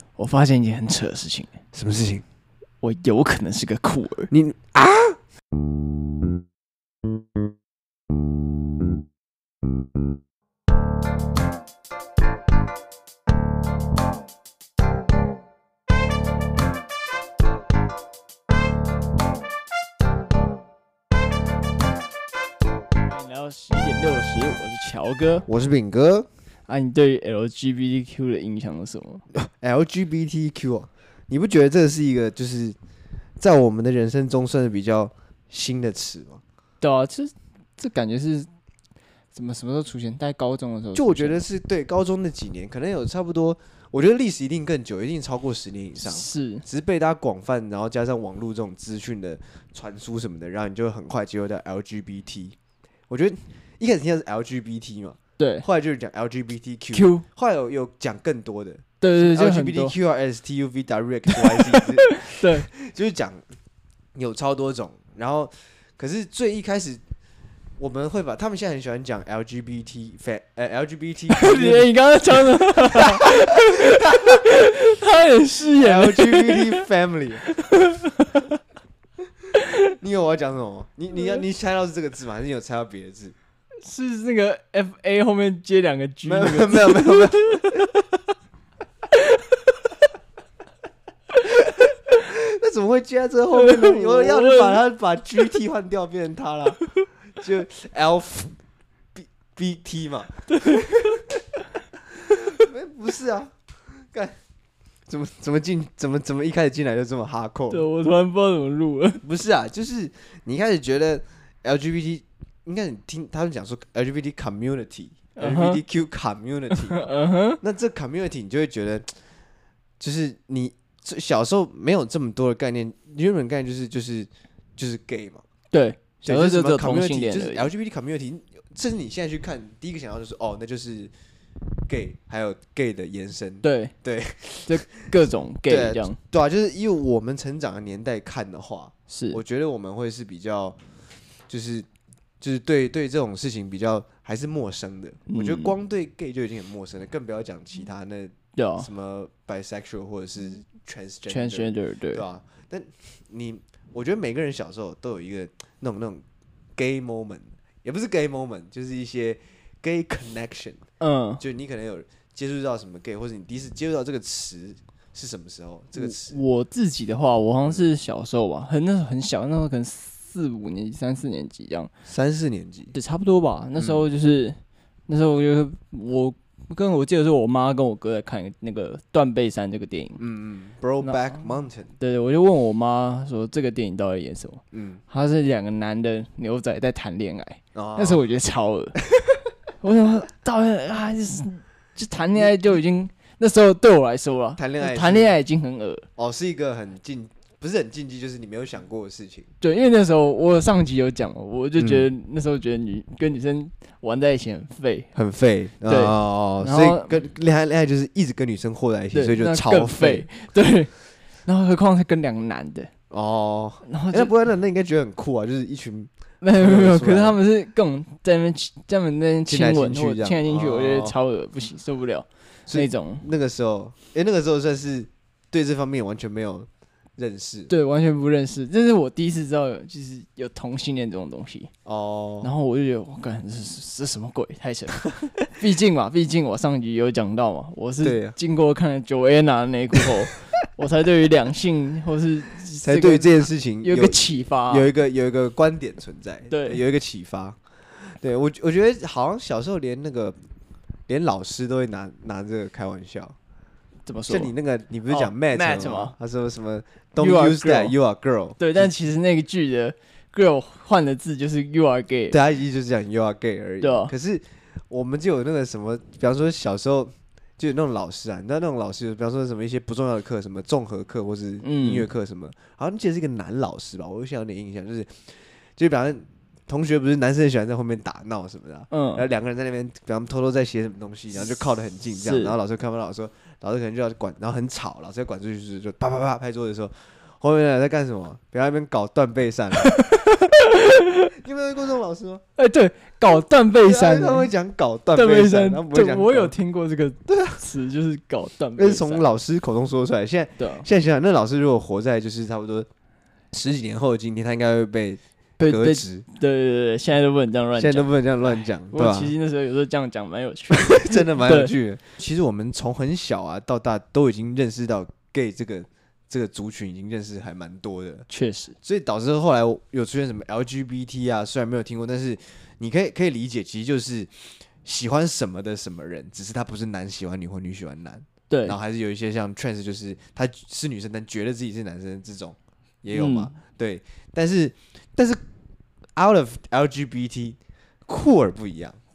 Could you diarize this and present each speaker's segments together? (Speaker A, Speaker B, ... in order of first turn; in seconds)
Speaker A: 0.2-1.5, 2.8-4.3, 23.1-25.4, 26.7-29.2, 36.8-38.5, 39.3-41.4, 46.0-46.6, 55.4-55.6, 56.9-57.2, 59.0-59.9, 61.4-62.7, 71.3-76.8, 77.5-78.4, 83.8-87.8, 93.6-94.8, 107.7-109.2, 115.3-115.8, 116.7-117.6, 125.7-127.7, 133.6-133.9, 134.7-136.2, 139.1-139.4, 145.3-145.7, 148.6-148.9, 151.3-152.2, 161.0-161.4, 165.9-171.9, 172.9-180.2, 181.0-181.4, 182.0-189.0, 189.8-196.1, 199.6-205.1, 205.9-207.1, 209.1-210.9, 211.4-212.9, 213.8-214.3, 216.4-223.2, 227.7-231.7, 232.4-244.9, 246.5-246.8, 254.1-254.5, 255.1-256.1, 257.2-257.9, 258.6-262.4, 263.8-264.1, 271.6-272.1, 278.9-279.2, 282.2-282.5, 289.8-291.3, 292.6-294.5, 295.1-299.2, 300.6-300.9, 305.6-311.7, 318.3-318.7, 328.5-328.8, 333.1-333.5
Speaker B: 1.7-2.2, 4.3-5.2, 25.5-26.3, 29.3-32.8, 33.4-36.4, 40.9-52.5, 53.1-63.5, 64.1-67.0, 67.8-73.5, 75.8-77.5, 80.0-83.3, 86.2-87.9, 92.1-96.8, 97.4-98.6, 99.1-101.3, 102.2-104.4, 105.1-107.9, 109.2-119.1, 120.0-125.4, 126.2-131.1, 131.9-135.1, 135.7-140.8, 141.5-141.9, 142.4-156.2, 156.8-160.8, 161.4-166.4, 172.1-172.9, 173.8-174.0, 180.2-181.9, 184.7-185.0, 187.7-188.2, 194.6-195.3, 196.2-199.5, 201.8-202.1, 205.1-210.3, 213.1-217.4, 219.4-221.2, 222.7-227.7, 231.8-232.5, 238.0-238.3, 242.8-250.3, 251.1-253.3, 254.3-258.9, 262.3-290.0, 291.3-292.4, 293.3-296.5, 297.3-297.6, 298.8-302.9, 303.5-306.2, 307.8-309.3, 310.7-318.3, 318.8-335.4, 336.1-339.0